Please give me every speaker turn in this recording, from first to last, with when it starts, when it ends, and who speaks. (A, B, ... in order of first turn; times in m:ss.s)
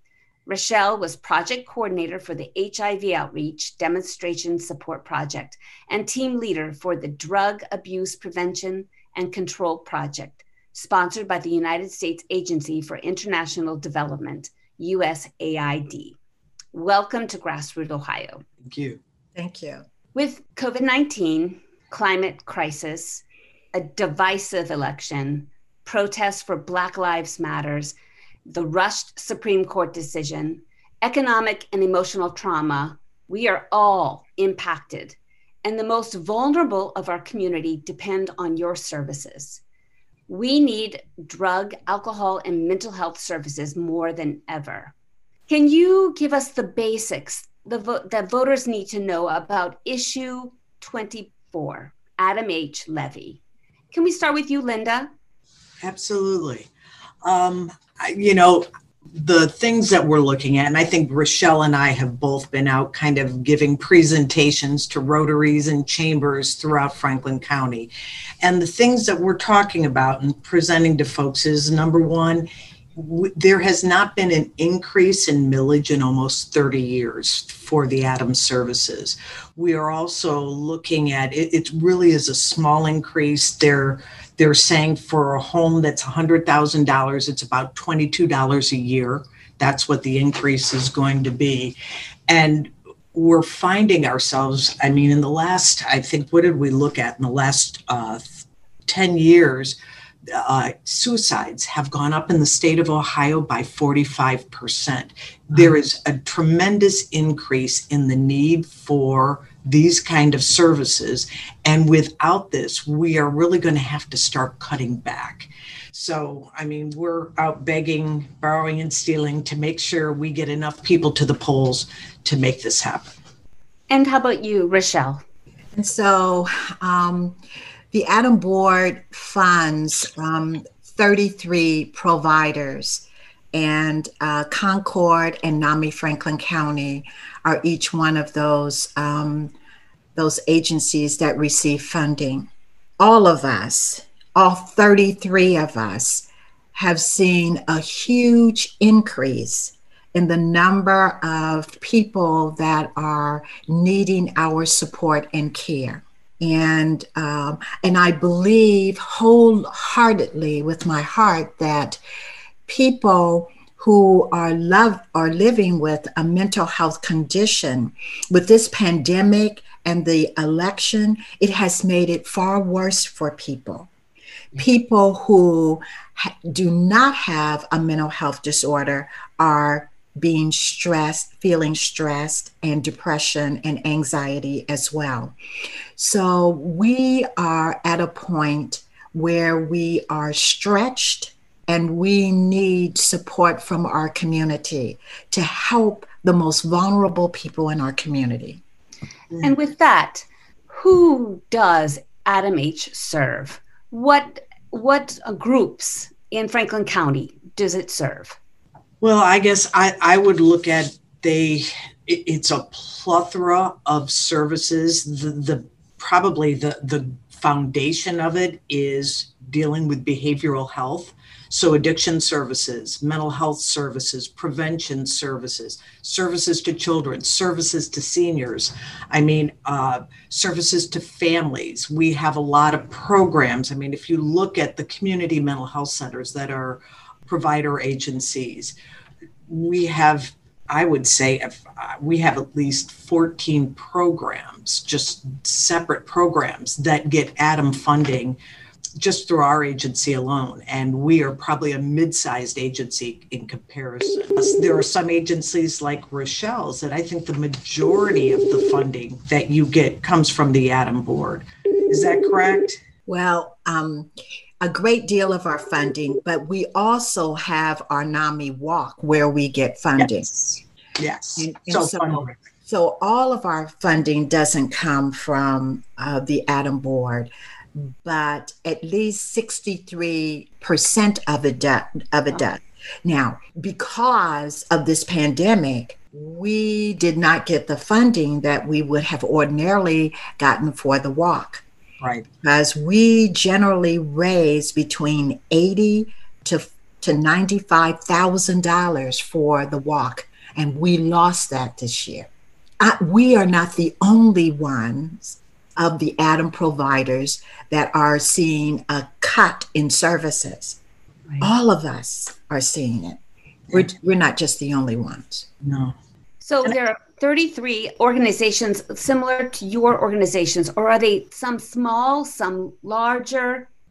0:00.5-0:16.2 A
0:16.7-0:18.4 A
0:18.6-0:19.0 B
0:19.4-0:19.8 C
0:20.1-0:28.0 A
0:28.5-0:39.6 A
0:40.3-0:44.9 A
0:45.5-0:53.4 A
0:53.9-0:55.1 A
0:55.8-0:56.7 B
0:57.2-1:07.9 B
1:08.4-1:31.8 B
1:32.3-1:39.8 B
1:40.3-2:03.2 B
2:03.9-2:05.2 A
2:05.8-2:07.4 C
2:07.9-2:19.5 C
2:20.2-2:22.5 C
2:23.0-2:42.0 C
2:42.7-2:53.9 C
2:54.5-3:05.4 C
3:06.0-3:18.6 C
3:19.4-3:28.4 A
3:29.0-3:58.8 B
3:59.5-4:08.4 B
4:09.0-4:22.8 B
4:23.1-4:30.6 C
4:31.0-4:32.4 B
4:31.4-4:51.6 C
4:52.0-4:52.3 B
4:52.4-5:02.3 C
5:02.8-5:10.8 C
5:11.4-5:13.2 C
5:13.7-5:15.5 C
5:15.6-5:16.0 B
5:16.4-5:23.7 A